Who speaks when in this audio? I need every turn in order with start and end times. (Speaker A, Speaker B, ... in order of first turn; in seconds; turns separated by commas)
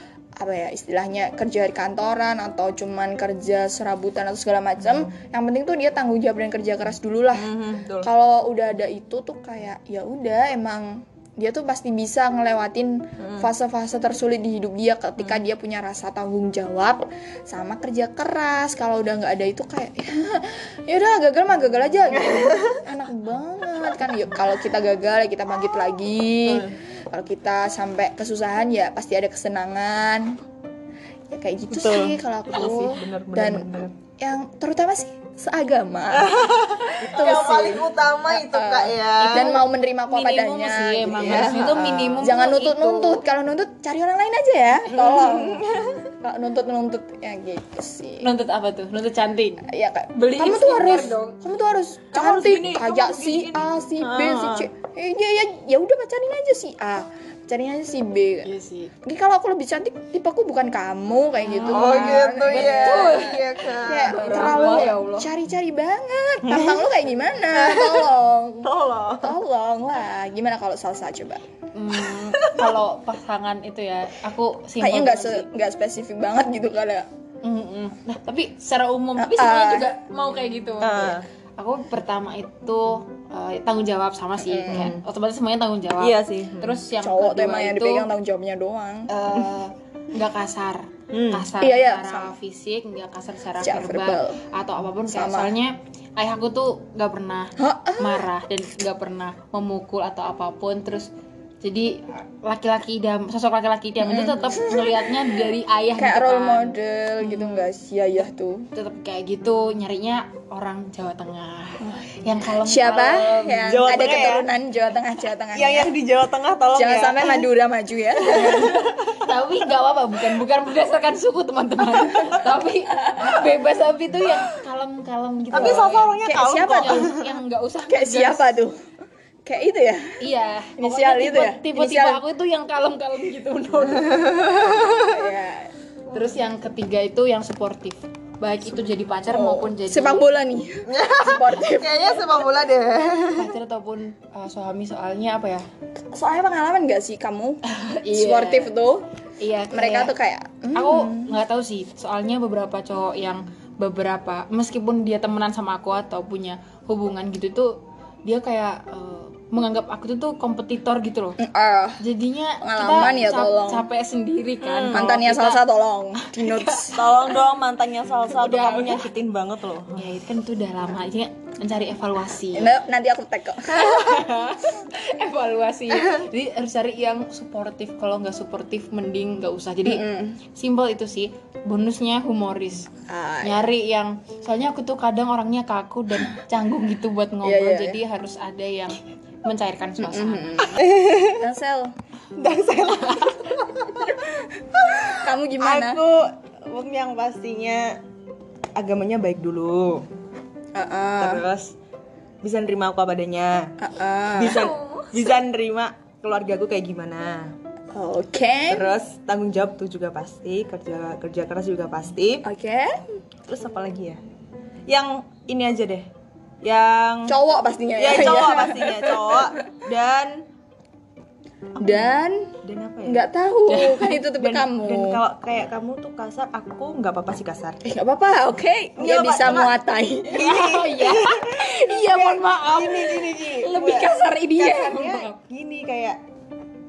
Speaker A: 0.4-30.4, Speaker B: 7.3-8.1, Speaker B: 13.2-13.5, Speaker B: 22.1-22.8, Speaker B: 26.4-26.8, Speaker A: 31.3-36.4, Speaker B: 31.7-33.9, Speaker B: 36.1-39.6, Speaker A: 37.0-45.7, Speaker C: 40.1-43.2, Speaker B: 41.1-42.3, Speaker B: 44.9-46.0, Speaker A: 46.2-48.3, Speaker C: 48.2-51.4, Speaker A: 49.6-58.5, Speaker B: 52.1-54.7, Speaker C: 58.4-58.9, Speaker A: 59.0-71.4, Speaker C: 61.4-65.3, Speaker B: 61.6-64.9, Speaker B: 66.4-66.9, Speaker B: 67.5-68.1, Speaker B: 68.6-69.4, Speaker C: 71.7-75.5, Speaker B: 72.1-72.8, Speaker A: 74.8-77.1, Speaker C: 77.4-88.1, Speaker A: 79.2-79.9, Speaker B: 80.8-81.2, Speaker A: 84.4-84.9, Speaker B: 84.7-85.0, Speaker B: 86.0-86.8, Speaker A: 87.0-89.1, Speaker C: 89.1-101.1, Speaker B: 91.1-91.5, Speaker A: 91.6-92.4, Speaker A: 93.6-94.4, Speaker A: 95.1-95.5, Speaker A: 97.6-98.2, Speaker C: 101.6-107.7, Speaker A: 104.0-105.3, Speaker A: 106.0-108.7, Speaker C: 108.7-113.8, Speaker A: 112.6-116.0, Speaker B: 113.7-114.5, Speaker B: 115.5-117.4, Speaker A: 116.7-118.8, Speaker B: 118.3-119.1, Speaker C: 118.3-128.6, Speaker A: 125.5-127.2, Speaker B: 125.5-127.2, Speaker A: 127.9-128.8, Speaker A: 129.4-130.2, Speaker C: 130.2-134.5, Speaker A: 130.8-132.2, Speaker B: 134.0-135.2, Speaker A: 134.9-135.7, Speaker C: 136.1-140.3, Speaker A: 139.3-142.2, Speaker B: 140.9-143.5, Speaker C: 143.3-145.7, Speaker A: 146.0-149.1, Speaker C: 147.6-148.7, Speaker C: 149.4-150.1, Speaker A: 149.7-151.3, Speaker C: 150.7-161.4, Speaker A: 161.4-162.0, Speaker C: 162.0-165.6, Speaker A: 162.6-163.9, Speaker B: 164.6-165.1, Speaker A: 164.9-167.0, Speaker C: 166.2-167.2, Speaker B: 166.9-170.0, Speaker C: 168.3-169.1, Speaker C: 169.9-172.7, Speaker A: 172.5-174.0, Speaker C: 173.6-182.9, Speaker A: 179.8-180.4, Speaker A: 183.1-183.6, Speaker C: 183.4-190.8, Speaker A: 187.4-188.0, Speaker A: 190.0-190.8, Speaker B: 190.8-191.4, Speaker A: 191.4-191.9, Speaker B: 192.3-194.2, Speaker C: 193.1-193.4, Speaker B: 194.7-198.0, Speaker A: 195.2-196.0, Speaker B: 198.7-200.1, Speaker A: 200.7-201.4, Speaker B: 201.2-201.7, Speaker B: 202.4-203.7, Speaker A: 203.8-204.7, Speaker B: 204.4-207.5, Speaker C: 204.5-205.3, Speaker A: 207.9-208.8, Speaker B: 208.7-212.4, Speaker A: 212.4-212.9, Speaker B: 213.5-214.2, Speaker B: 214.9-216.1, Speaker B: 216.6-217.4, Speaker A: 217.3-219.4, Speaker B: 218.0-220.4, Speaker B: 221.8-227.8, Speaker A: 221.8-222.5, Speaker A: 223.0-225.2, Speaker A: 227.8-230.4, Speaker B: 229.0-229.7, Speaker C: 230.3-235.4, Speaker B: 230.3-236.2